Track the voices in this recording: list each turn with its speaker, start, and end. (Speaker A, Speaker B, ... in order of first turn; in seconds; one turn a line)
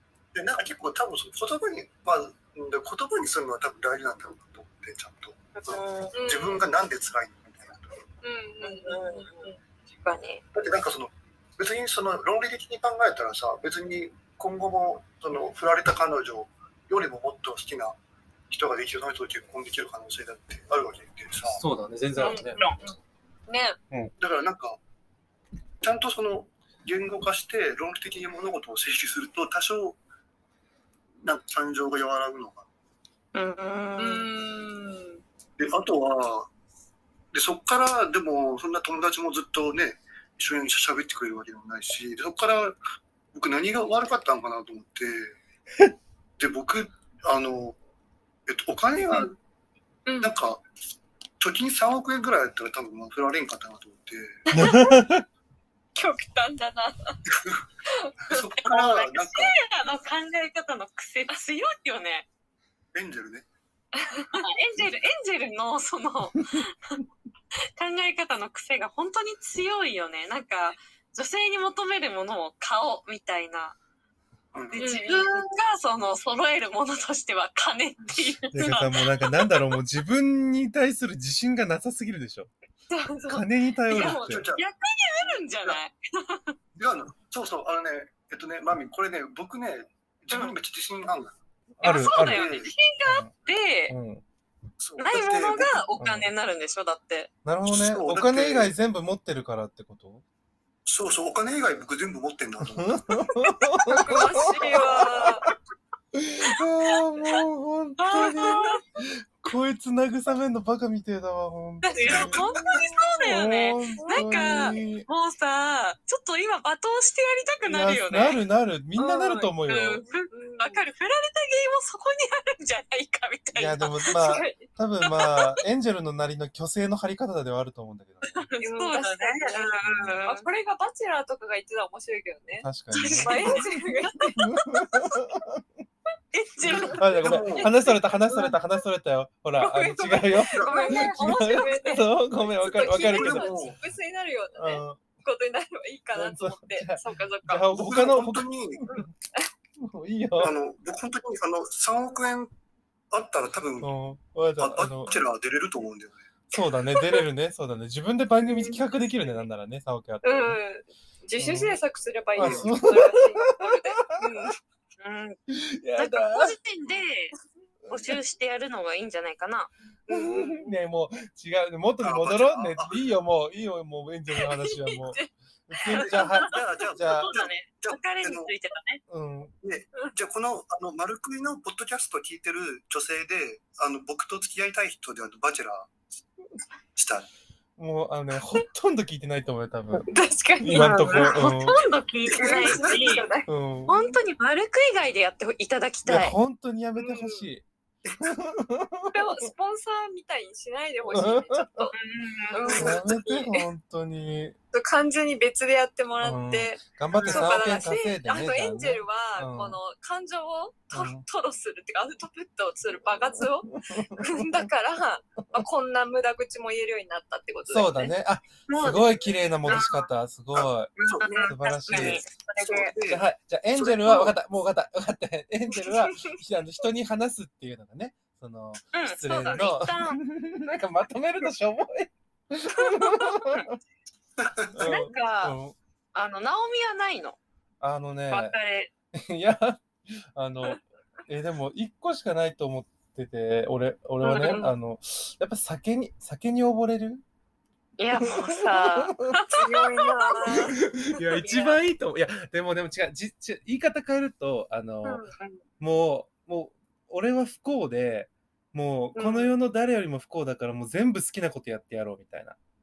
Speaker A: 0.3-8.0
Speaker B: 5.5-6.2
Speaker C: 6.1-6.7
Speaker C: 8.2-9.6
Speaker B: 8.6-10.4
Speaker A: 10.5-18.0
Speaker A: 18.5-21.6
Speaker D: 21.4-22.7
Speaker C: 22.2-23.0
Speaker B: 22.2-22.8
Speaker C: 23.5-23.8
Speaker A: 24.2-24.8
Speaker A: 25.8-30.0
Speaker A: 31.2-32.7
Speaker B: 33.3-34.3
Speaker C: 34.0-35.2
Speaker A: 35.6-36.5
Speaker A: 37.3-42.8
Speaker A: 43.3-45.4
Speaker A: 46.4-47.8
Speaker A: 48.5-49.4
Speaker C: 50.1-50.3
Speaker A: 50.2-50.6
Speaker A: 51.4-54.5
Speaker C: 54.5-55.0
Speaker D: 54.5-55.2
Speaker C: 56.0-57.2
Speaker A: 57.3-57.6
Speaker C: 57.9-58.4
Speaker A: 58.3-59.5
Speaker B: 58.6-62.3
Speaker A: 62.9-63.5
Speaker C: 64.0-64.5
Speaker B: 64.3-67.0
Speaker B: 67.8-73.8
Speaker A: 74.5-74.8
Speaker B: 74.7-79.4
Speaker C: 74.8-75.4
Speaker D: 78.5-82.5
Speaker C: 82.9-83.4
Speaker D: 83.3-84.5
Speaker B: 83.9-86.5
Speaker A: 84.0-84.6
Speaker A: 86.8-91.3
Speaker B: 90.3-90.6
Speaker D: 91.8-92.5
Speaker B: 91.8-92.7
Speaker C: 91.9-93.2
Speaker A: 92.1-92.7
Speaker D: 93.0-93.3
Speaker B: 93.5-94.0
Speaker D: 93.9-94.2
Speaker A: 94.8-95.9
Speaker B: 95.0-97.3
Speaker D: 96.0-96.3
Speaker D: 97.5-100.2
Speaker A: 97.7-98.7
Speaker A: 100.9-103.3
Speaker D: 102.7-105.5
Speaker C: 103.9-105.5
Speaker D: 106.1-115.1
Speaker B: 108.0-108.8
Speaker C: 111.8-112.9
Speaker B: 111.8-118.4
Speaker C: 114.0-114.8
Speaker D: 117.6-120.0
Speaker C: 119.0-119.5
Speaker B: 119.6-124.5
Speaker C: 120.3-120.8
Speaker D: 123.5-128.5
Speaker C: 124.2-124.6
Speaker B: 125.0-125.5
Speaker B: 128.5-130.5
Speaker C: 128.6-135.1
Speaker D: 129.8-130.2
Speaker D: 132.6-133.6
Speaker B: 132.9-133.7
Speaker D: 134.3-135.7
Speaker B: 136.3-137.1
Speaker A: 136.8-137.8
Speaker D: 136.8-143.8
Speaker C: 138.3-138.6
Speaker C: 139.6-147.7
Speaker A: 140.5-140.9
Speaker B: 140.7-142.0
Speaker A: 142.8-143.8
Speaker D: 144.6-145.0
Speaker D: 146.1-149.1
Speaker A: 147.7-148.9
Speaker C: 148.9-149.5
Speaker D: 149.8-150.5
Speaker A: 150.4-152.5
Speaker A: 153.1-153.9
Speaker D: 153.8-155.2
Speaker A: 154.6-156.2
Speaker D: 156.5-160.6
Speaker C: 158.4-158.8
Speaker C: 160.2-164.6
Speaker D: 161.4-161.8
Speaker D: 162.4-164.5
Speaker A: 162.4-162.7
Speaker B: 165.0-165.4
Speaker D: 165.5-166.6
Speaker B: 166.0-167.3
Speaker D: 167.8-168.2
Speaker B: 167.9-169.7
Speaker C: 170.1-170.7
Speaker D: 170.1-177.3
Speaker A: 172.0-173.0
Speaker C: 174.3-176.2
Speaker A: 176.0-178.5
Speaker B: 177.1-179.0
Speaker D: 179.1-179.5
Speaker A: 179.6-185.9
Speaker A: 187.0-187.3
Speaker D: 187.8-190.1
Speaker C: 190.1-191.4
Speaker D: 190.6-191.8
Speaker B: 190.7-193.3
Speaker A: 192.3-193.0
Speaker C: 192.4-194.2
Speaker D: 193.5-193.9
Speaker B: 193.9-196.3
Speaker D: 196.1-197.7
Speaker C: 197.0-197.5
Speaker D: 198.2-199.3
Speaker C: 199.1-202.0
Speaker D: 201.1-201.9
Speaker B: 201.9-203.0
Speaker C: 202.5-203.7
Speaker D: 202.7-204.6
Speaker C: 204.7-218.1
Speaker D: 206.2-209.8
Speaker A: 207.2-207.5
Speaker D: 210.9-211.2
Speaker D: 213.4-214.7
Speaker D: 217.7-220.9
Speaker B: 218.7-220.1
Speaker A: 220.6-224.3
Speaker B: 221.0-222.9
Speaker D: 221.5-222.2
Speaker D: 223.1-233.8
Speaker C: 225.8-226.3
Speaker B: 228.9-230.2
Speaker B: 232.8-233.7
Speaker A: 234.4-234.7
Speaker D: 234.7-235.8
Speaker B: 234.8-235.6
Speaker B: 236.1-237.4
Speaker D: 237.8-238.6
Speaker B: 238.3-238.9
Speaker D: 239.1-247.2
Speaker C: 244.2-244.7
Speaker B: 248.0-250.6
Speaker D: 248.2-249.4
Speaker C: 249.4-251.8
Speaker D: 250.5-255.2
Speaker C: 255.0-255.3
Speaker D: 255.8-262.6
Speaker C: 259.2-259.5